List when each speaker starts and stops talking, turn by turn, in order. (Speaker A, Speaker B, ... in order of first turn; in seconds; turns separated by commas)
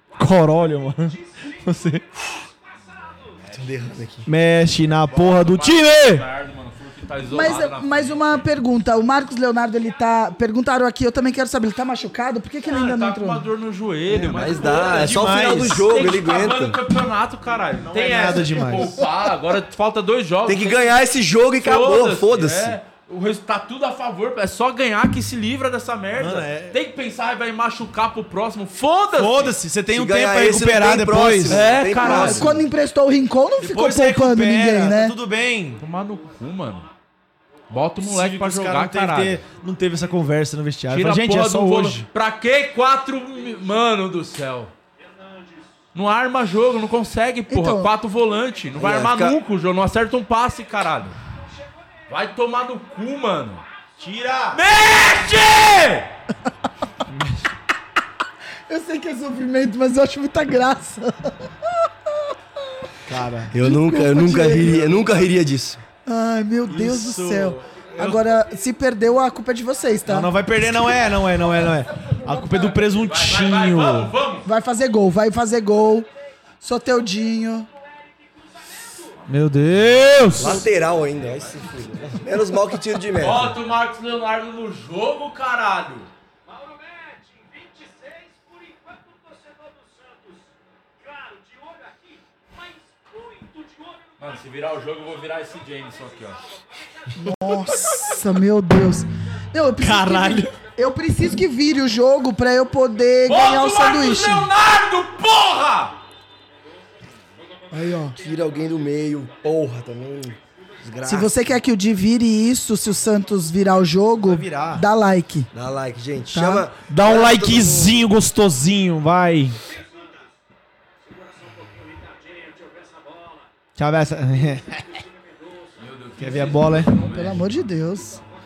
Speaker A: 0.2-2.0, Speaker B: 3.3-3.5, Speaker C: 3.5-4.3, Speaker A: 4.2-6.2, Speaker B: 5.1-8.4, Speaker D: 7.3-13.4, Speaker B: 12.7-21.0, Speaker C: 14.1-16.8, Speaker A: 14.8-15.9, Speaker A: 17.7-18.9, Speaker C: 20.4-22.7, Speaker B: 21.6-29.6, Speaker A: 26.1-26.8, Speaker A: 29.1-31.7, Speaker C: 29.9-32.6, Speaker B: 31.5-32.5, Speaker D: 32.0-35.1, Speaker A: 33.6-35.8, Speaker B: 35.8-36.9, Speaker B: 37.7-39.4, Speaker A: 38.0-42.1, Speaker B: 40.9-44.7, Speaker B: 45.9-51.2, Speaker D: 47.5-47.9, Speaker C: 48.8-49.4, Speaker B: 52.1-53.6, Speaker A: 54.0-54.6, Speaker B: 54.5-56.1, Speaker A: 57.1-57.5, Speaker D: 58.7-61.9, Speaker A: 63.0-63.5, Speaker C: 63.5-65.8, Speaker D: 63.6-64.9, Speaker A: 64.5-65.2, Speaker D: 66.0-70.3, Speaker A: 66.7-68.2, Speaker A: 70.0-74.1, Speaker B: 72.5-74.5, Speaker D: 74.4-76.1, Speaker D: 76.6-77.7, Speaker A: 79.3-80.7, Speaker B: 80.0-81.7, Speaker C: 80.4-83.5, Speaker B: 83.2-86.1, Speaker B: 94.2-96.4, Speaker D: 97.2-104.5, Speaker A: 99.8-100.5, Speaker B: 103.3-106.0, Speaker D: 107.7-108.2, Speaker C: 108.2-111.3, Speaker D: 111.0-115.5, Speaker A: 114.2-114.8, Speaker C: 115.5-118.0, Speaker D: 116.3-116.6, Speaker A: 116.9-119.6, Speaker A: 123.7-125.0, Speaker B: 125.8-127.7, Speaker A: 126.2-126.9, Speaker D: 127.0-128.2